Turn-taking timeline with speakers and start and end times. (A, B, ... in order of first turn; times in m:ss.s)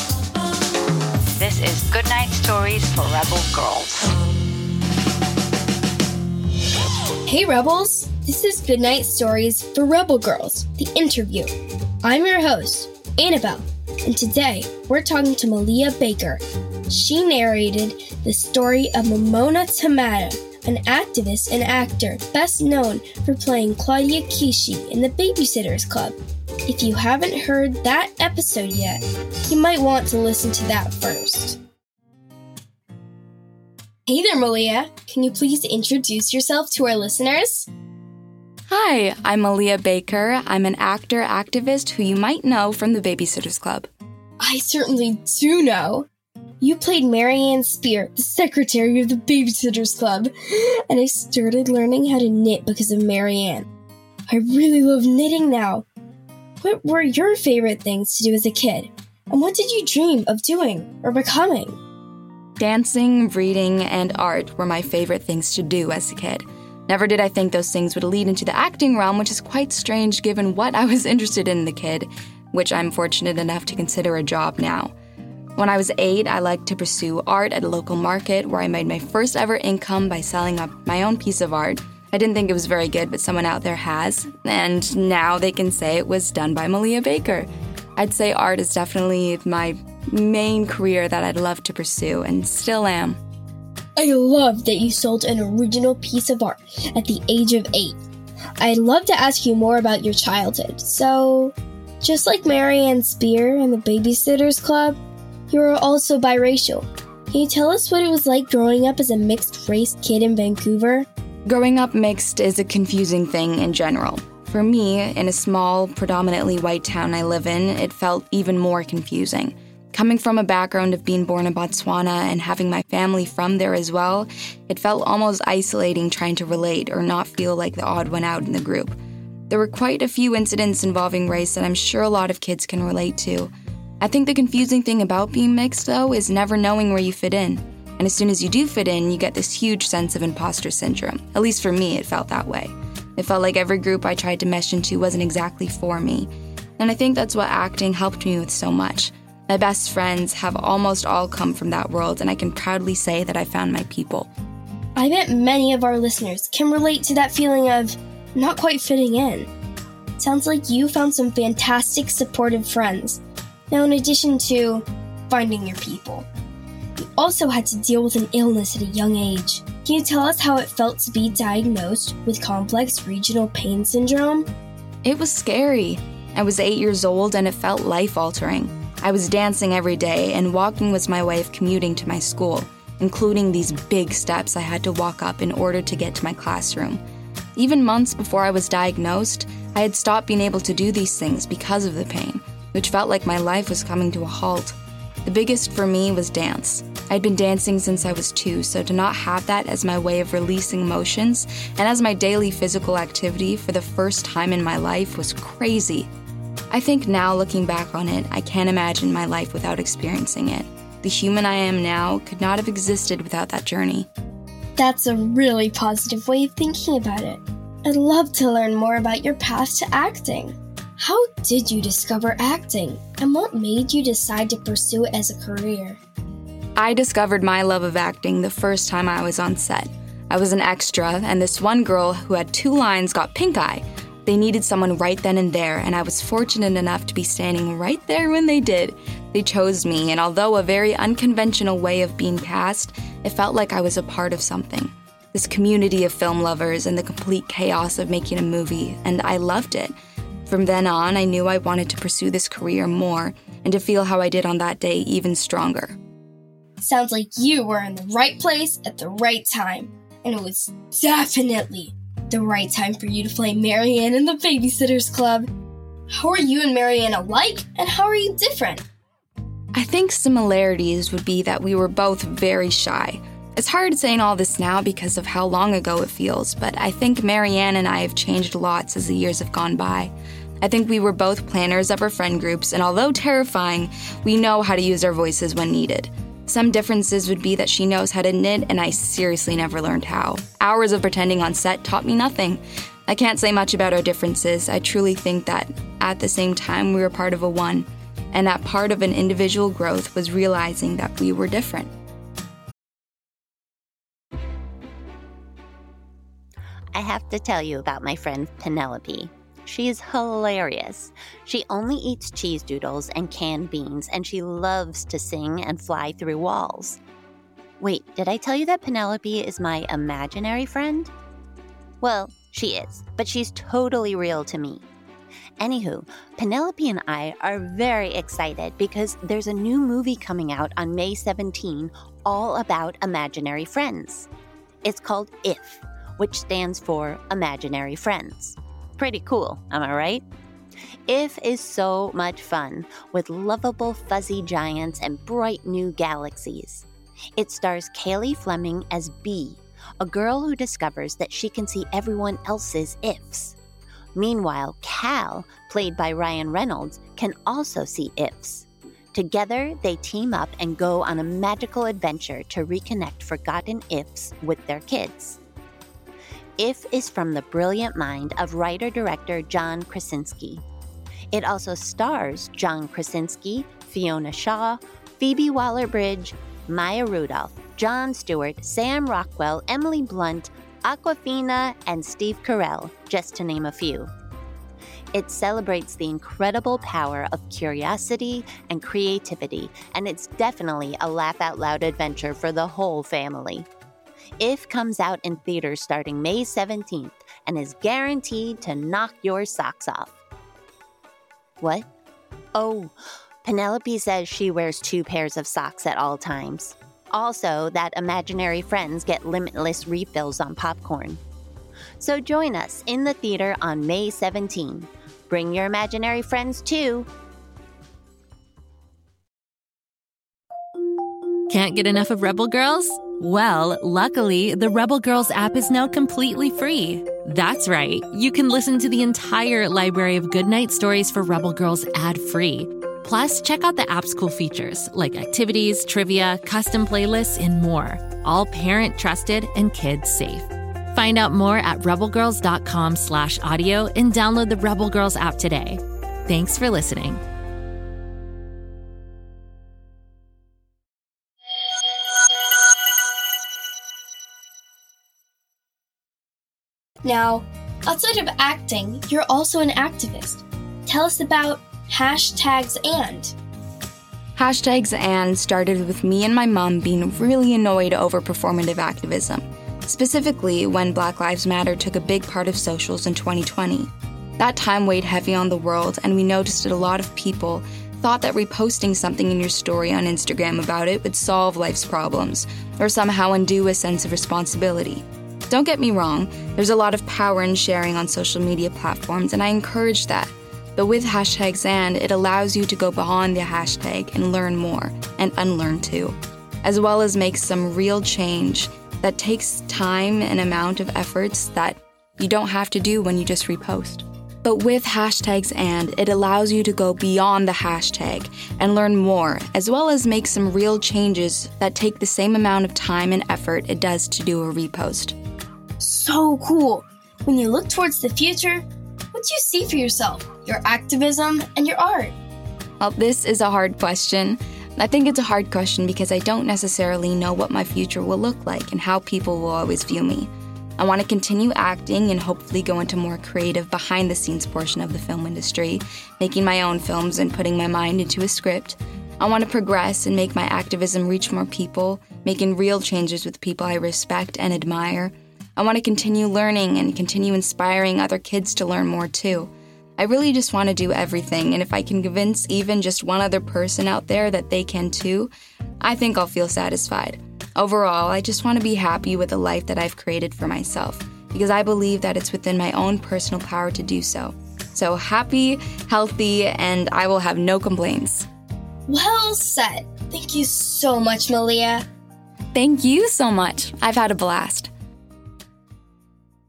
0:01.4-0:04.2 A
0:07.3-0:11.5 B
0:12.0-0:31.6 B
0:34.1-0:37.7 B
0:38.7-0:43.9 C
0:44.4-0:46.1 B
0:46.6-0:53.7 B
0:54.3-0:55.8 B
0:56.6-1:01.8 B
1:02.6-1:14.9 C
1:15.6-1:33.2 C
1:34.0-1:38.0 B
1:38.6-1:45.0 B
1:45.5-1:51.1 B
1:51.5-2:09.0 C
2:09.5-2:34.3 C
2:35.0-2:39.5 B
2:40.2-2:46.3 B
2:47.0-2:54.5 B
2:55.0-3:07.0 C
3:07.6-3:26.1 C
3:26.7-3:34.1 C
3:34.8-3:46.0 B
3:46.8-4:10.0 C
4:10.5-4:16.0 C
4:16.8-4:25.5 B
4:26.1-4:28.8 B
4:29.7-5:01.9 C
5:06.9-5:17.0 D
5:17.8-5:21.1 D
5:22.0-5:24.8 D
5:25.6-5:34.3 D
5:34.8-5:40.2 D
5:41.1-5:53.6 D
5:54.2-6:05.4 D
6:06.6-6:10.6 D
6:11.3-6:24.1 D
6:25.1-6:33.7 D
6:34.4-6:40.2 D
6:41.6-6:41.9 D
6:42.6-6:51.2 D
6:52.0-6:57.1 D
7:01.5-7:27.2 E
7:37.0-7:43.4 B
7:44.4-8:35.2 C
8:35.8-8:42.2 B
8:42.8-9:28.3 C
9:28.9-9:31.8 B
9:32.5-9:34.7 C